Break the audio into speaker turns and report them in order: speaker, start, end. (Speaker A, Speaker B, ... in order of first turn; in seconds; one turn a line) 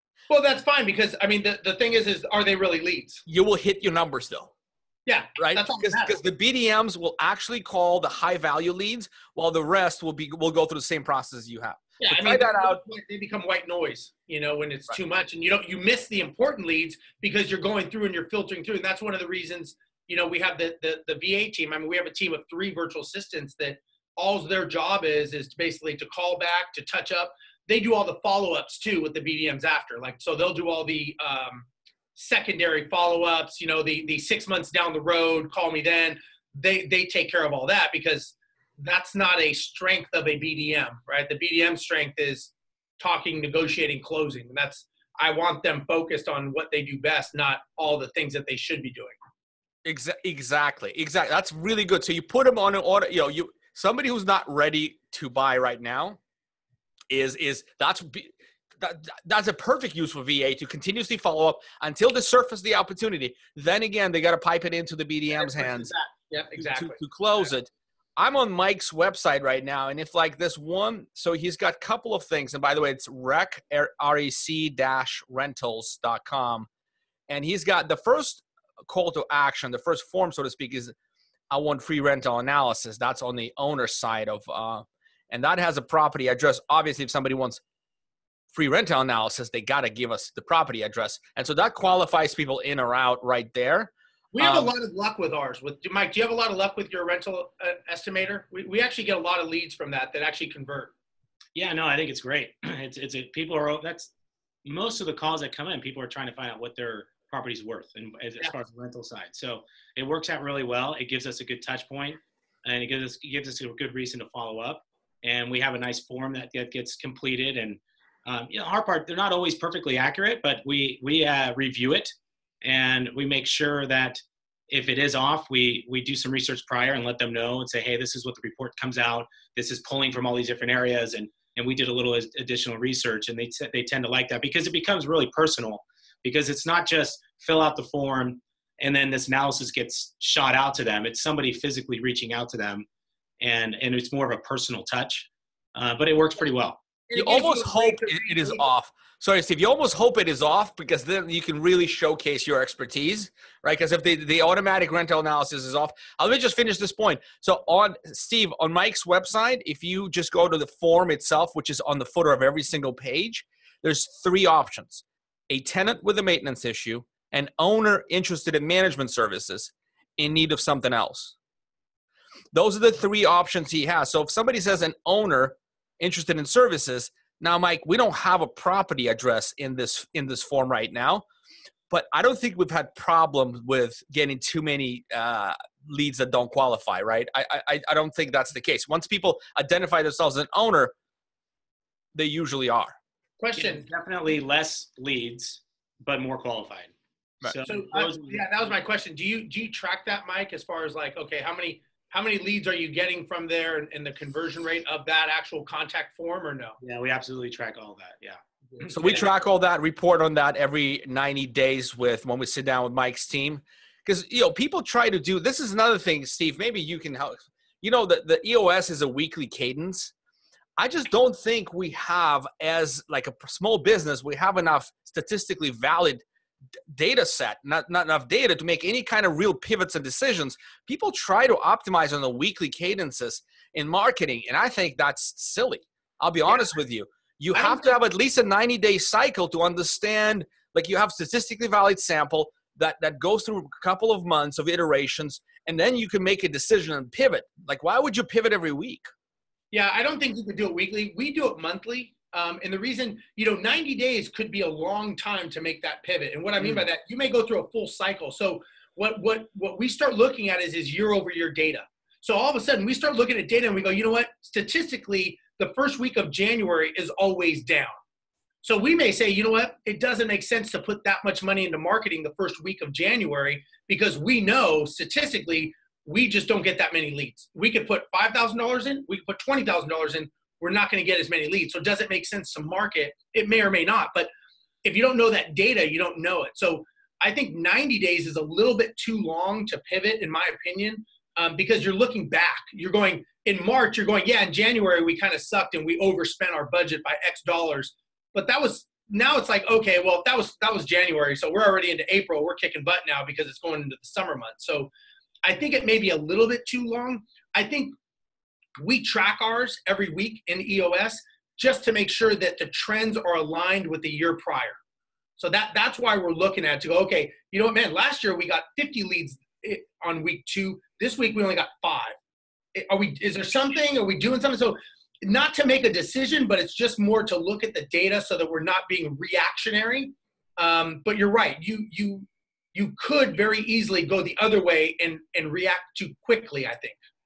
Speaker A: 0.3-3.2
Speaker B: 3.3-4.5
Speaker A: 5.1-6.2
Speaker B: 5.4-12.8
Speaker A: 12.0-49.1
Speaker B: 49.9-56.2
Speaker B: 57.1-65.9
Speaker A: 65.3-67.5
Speaker B: 66.6-76.7
Speaker B: 77.3-81.0
Speaker B: 81.5-87.6
Speaker B: 88.5-94.7
Speaker A: 94.3-100.9
Speaker C: 101.5-104.1
Speaker C: 104.7-142.9
Speaker C: 143.4-146.8
Speaker A: 147.1-148.7
Speaker B: 147.2-171.3
Speaker B: 172.5-181.2
Speaker B: 181.9-190.9
Speaker B: 192.2-193.0
Speaker A: 193.4-193.8
Speaker C: 193.6-196.9
Speaker C: 197.4-198.5
Speaker A: 197.7-206.8
Speaker C: 206.8-209.3
Speaker B: 208.9-220.1
Speaker B: 220.8-226.2
Speaker B: 226.9-249.1
Speaker A: 237.6-237.9
Speaker A: 249.7-268.0
Speaker A: 268.6-284.3
Speaker A: 284.8-304.9
Speaker A: 305.4-307.9
Speaker A: 308.8-314.8
Speaker A: 315.4-322.1
Speaker A: 322.7-337.0